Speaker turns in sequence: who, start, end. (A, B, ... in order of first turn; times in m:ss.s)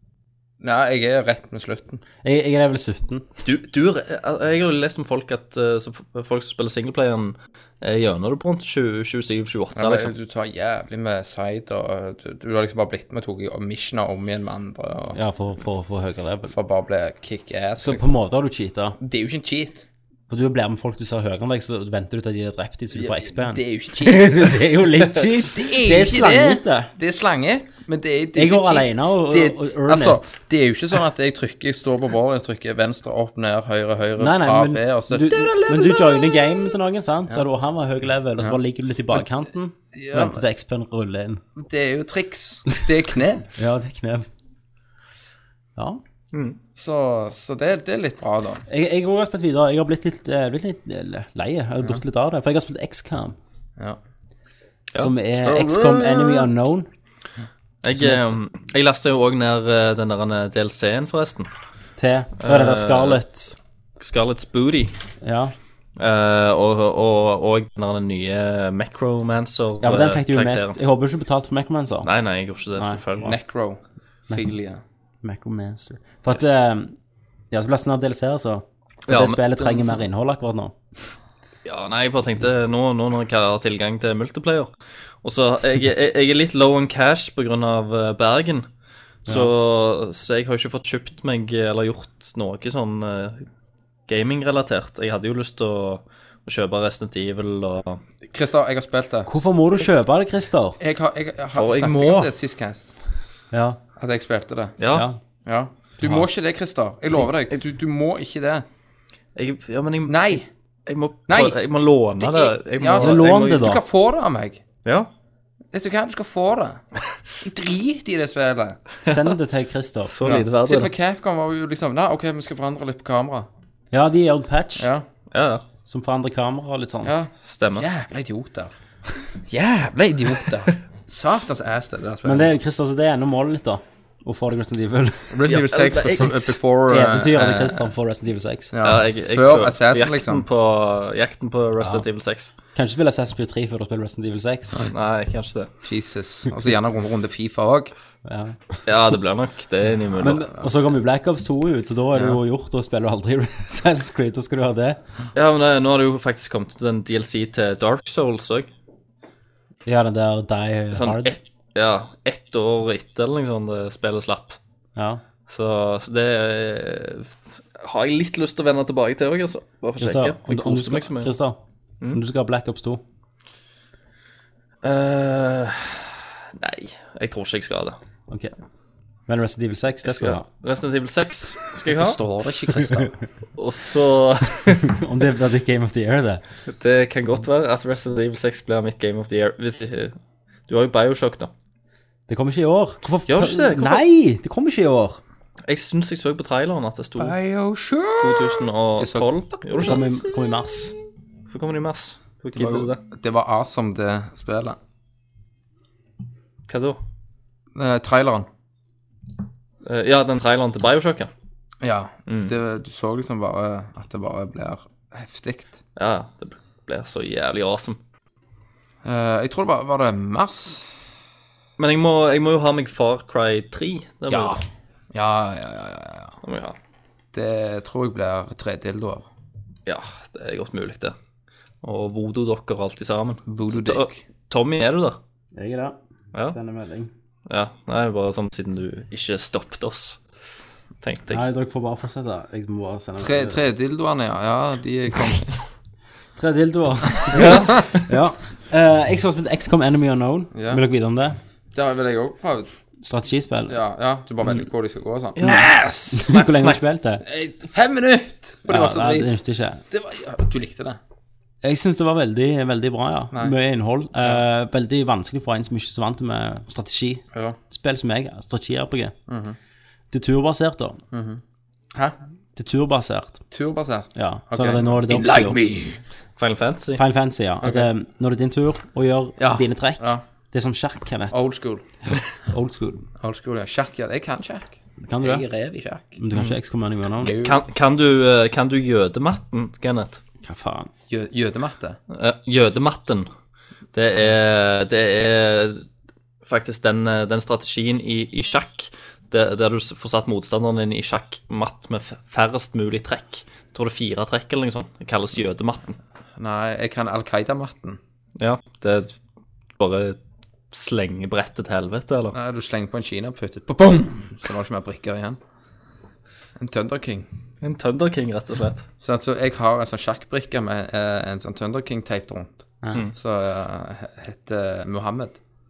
0:00.6-0:02.0 A
0:02.2-0:03.2 B
0:03.4-0:10.1 C
0:09.7-0:15.2 A
0:15.1-0:16.5 B
0:16.5-0:18.1 A
0:17.8-0:19.0 B
0:19.0-0:19.8 A
0:20.3-0:26.9 B
0:22.9-0:36.1 A
0:28.4-0:30.2 B
0:34.2-0:41.4 B
0:39.9-0:40.4 A
0:41.6-0:43.5 A
0:43.6-0:44.3 B
0:45.8-0:46.0 B
0:46.3-0:46.6 C
0:46.7-0:48.6 A
0:48.7-0:53.4 B
0:54.9-0:56.4 C
0:55.0-0:56.9 B
0:57.8-1:01.5 C
0:57.9-0:58.4 B
1:02.0-1:03.6 B
1:02.4-1:03.2 C
1:04.0-1:04.9 C
1:05.2-1:05.5 B
1:06.0-1:10.8 C
1:09.8-1:12.1 B
1:12.0-1:13.3 C
1:12.8-1:13.3 B
1:13.2-1:14.8 A
1:15.2-1:16.9 B
1:17.5-1:20.8 B
1:19.1-1:20.0 C
1:21.6-1:24.7 C
1:25.2-1:28.7 C
1:29.2-1:33.4 C
1:34.1-1:38.0 C
1:38.2-1:39.3 A
1:39.3-1:40.8 B
1:40.8-1:42.9 A
1:41.5-1:42.3 C
1:43.5-1:43.8 B
1:44.0-1:44.8 A
1:44.8-1:45.1 C
1:44.9-1:45.2 B
1:45.4-1:48.6 A
1:46.0-1:46.2 B
1:49.4-1:50.3 C
1:50.0-1:50.5 A
1:50.8-1:53.6 C
1:51.3-1:51.6 A
1:52.1-1:54.6 A
1:53.0-1:53.8 B
1:55.7-1:56.8 A
1:57.4-1:58.8 A
1:59.0-2:00.1 B
2:00.0-2:00.9 C
2:00.2-2:03.5 A
2:03.9-2:04.9 B
2:04.8-2:05.0 A
2:05.3-2:05.6 C
2:05.8-2:07.1 B
2:07.0-2:08.7 A
2:07.4-2:07.9 C
2:09.5-2:12.6 A
2:12.2-2:15.4 B
2:15.3-2:17.9 A
2:15.5-2:16.5 C
2:16.9-2:18.7 B
2:18.7-2:20.4 A
2:18.8-2:22.5 C
2:22.7-2:24.8 B
2:24.8-2:25.7 C
2:25.8-2:27.9 A
2:28.2-2:28.8 B
2:28.8-2:30.5 C
2:30.2-2:35.0 B
2:32.1-2:32.4 A
2:35.3-2:38.7 C
2:39.8-2:41.4 B
2:40.9-2:44.6 C
2:45.0-2:45.2 B
2:45.5-2:51.3 C
2:50.0-2:51.6 B
2:52.1-2:53.0 B
2:54.8-2:58.0 C
2:58.3-2:58.5 B
2:59.3-3:00.4 B
3:00.0-3:02.2 C
3:01.9-3:03.1 A
3:03.6-3:04.9 C
3:04.9-3:06.4 B
3:06.7-3:10.1 C
3:10.7-3:11.5 C
3:12.3-3:15.2 B
3:13.3-3:14.0 C
3:15.7-3:17.4 C
3:17.2-3:19.3 A
3:18.2-3:20.2 C
3:19.8-3:20.9 B
3:21.5-3:23.0 C
3:22.5-3:24.8 A
3:26.7-3:27.0 C
3:27.7-3:28.5 A
3:29.8-3:31.3 C
3:31.8-3:35.8 A
3:32.3-3:32.5 C
3:36.0-3:38.0 C
3:39.0-3:40.9 A
3:41.8-3:44.6 C
3:44.3-3:44.6 A
3:45.1-3:46.4 A
3:46.4-3:46.8 C
3:47.3-3:49.3 A
3:49.9-3:51.1 C
3:51.8-3:55.2 C
3:53.5-3:54.2 A
3:55.5-3:57.1 B
3:57.5-4:00.2 C
4:01.0-4:01.4 C
4:01.3-4:03.6 B
4:03.2-4:05.6 A
4:06.4-4:11.4 B
4:07.3-4:07.8 A
4:07.3-4:08.1 C
4:10.5-4:10.8 A
4:11.7-4:12.8 A
4:13.0-4:13.8 B
4:13.7-4:16.3 A
4:15.4-4:16.8 C
4:16.1-4:17.2 B
4:17.2-4:19.4 A
4:18.7-4:19.8 B
4:19.9-4:21.0 A
4:21.6-4:29.1 B
4:29.3-4:29.6 A
4:30.1-4:31.0 B
4:31.1-4:31.4 A
4:32.6-4:33.4 B
4:33.5-4:36.0 A
4:34.2-4:35.6 B
4:36.4-4:37.0 C
4:37.0-4:41.4 B
4:37.6-4:37.9 A
4:39.4-4:40.2 A
4:41.3-4:41.8 A
4:42.1-4:43.0 B
4:43.2-4:46.2 A
4:45.0-4:45.4 B
4:46.2-4:47.3 B
4:47.2-4:47.6 A
4:47.3-4:50.2 C
4:50.4-4:50.9 B
4:51.1-4:52.0 A
4:52.1-4:53.3 C
4:53.9-4:55.8 C
4:56.4-5:06.0 C
5:06.4-5:08.0 A
5:08.4-5:09.1 C
5:09.8-5:10.2 C
5:10.7-5:12.3 C
5:12.3-5:15.4 A
5:16.6-5:17.3 A
5:17.6-5:18.9 C
5:19.0-5:25.4 A